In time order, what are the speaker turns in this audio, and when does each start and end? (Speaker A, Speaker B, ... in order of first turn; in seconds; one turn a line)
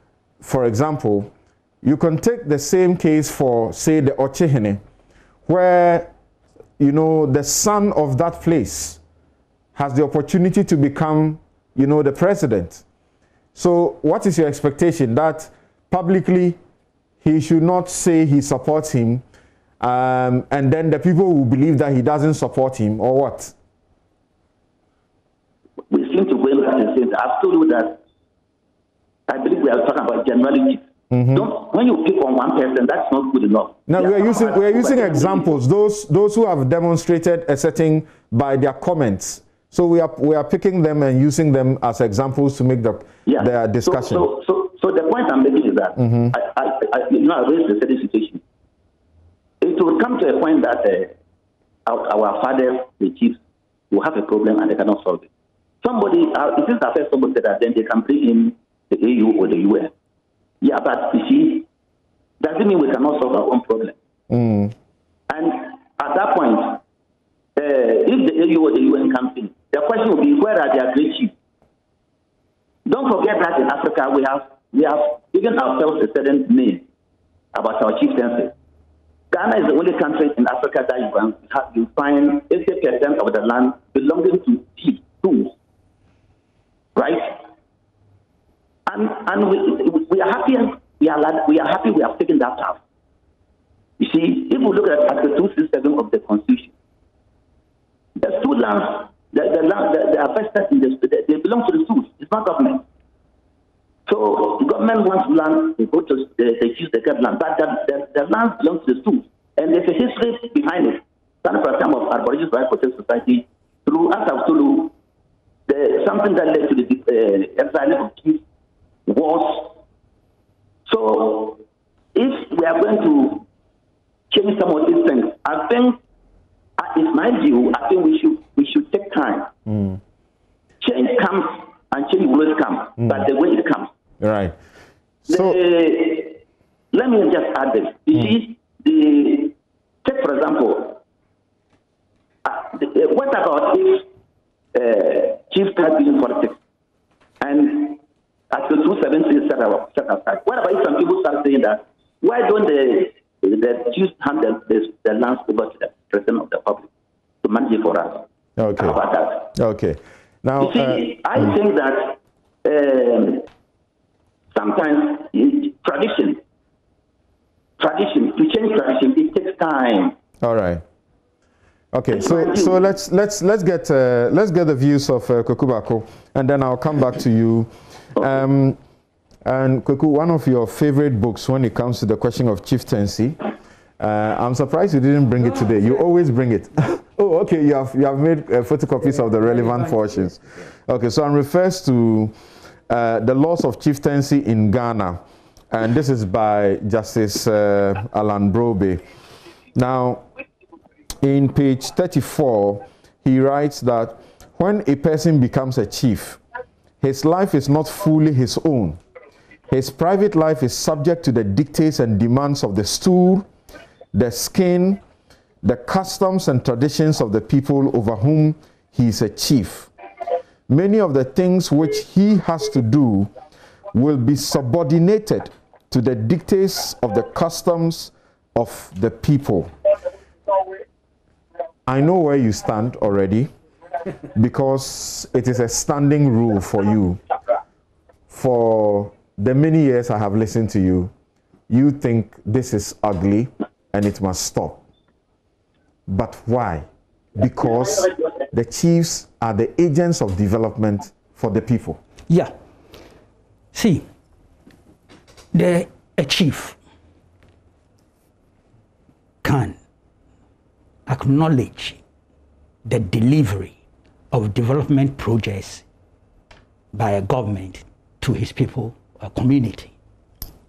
Speaker A: 0.4-4.8
Speaker A: 5.5-6.1
Speaker A: 6.8-9.0
Speaker A: 9.8-12.8
Speaker A: 13.6-16.6
Speaker A: 17.2-19.2
Speaker A: 19.8-23.5
Speaker B: 25.9-28.0
Speaker B: 29.3-35.6
Speaker A: 31.1-31.5
Speaker A: 33.9-44.3
Speaker B: 43.3-48.4
Speaker A: 46.0-46.4
Speaker B: 49.6-51.1
Speaker B: 51.9-53.4
Speaker B: 53.9-55.3
Speaker B: 55.8-59.9
Speaker B: 60.6-61.7
Speaker B: 62.4-64.0
Speaker A: 64.3-64.7
Speaker B: 65.3-66.8
Speaker B: 67.6-71.3
Speaker B: 72.9-76.8
Speaker B: 77.5-78.5
Speaker B: 79.3-85.5
Speaker B: 87.0-87.4
Speaker B: 88.9-92.8
Speaker B: 94.0-96.7
Speaker B: 98.2-102.8
Speaker B: 104.1-114.9
Speaker B: 115.7-118.4
Speaker B: 119.1-119.8
Speaker B: 120.9-121.6
Speaker B: 122.2-123.5
Speaker B: 124.3-126.0
Speaker B: 126.8-129.5
Speaker A: 129.7-130.0
Speaker B: 130.8-133.9
Speaker A: 134.2-134.6
Speaker A: 135.3-135.6
Speaker B: 135.3-136.4
Speaker B: 136.9-141.0
Speaker B: 142.4-144.1
Speaker B: 144.7-146.6
Speaker B: 147.4-148.0
Speaker B: 148.5-156.9
Speaker B: 157.4-159.5
Speaker A: 158.6-159.0
Speaker A: 159.5-161.4
Speaker B: 160.6-163.5
Speaker B: 164.5-166.4
Speaker B: 167.8-170.2
Speaker A: 170.4-170.8
Speaker A: 171.9-178.8
Speaker B: 172.1-172.8
Speaker A: 179.4-183.4
Speaker A: 184.0-192.3
Speaker A: 192.9-199.0
Speaker A: 199.8-200.2
Speaker A: 201.2-206.4
Speaker A: 207.0-209.0
Speaker A: 209.7-213.5
Speaker A: 214.1-215.0
Speaker A: 215.6-219.9
Speaker A: 220.7-223.3
Speaker A: 223.9-229.7
Speaker A: 231.9-233.5
Speaker A: 234.3-237.2
Speaker A: 238.3-241.1
Speaker A: 241.7-244.8
Speaker A: 246.1-252.0
Speaker C: 253.7-254.1
Speaker C: 255.5-256.8
Speaker C: 259.4-259.8
Speaker C: 261.1-262.0
Speaker C: 262.9-263.8
Speaker C: 264.3-265.8
Speaker C: 266.9-269.9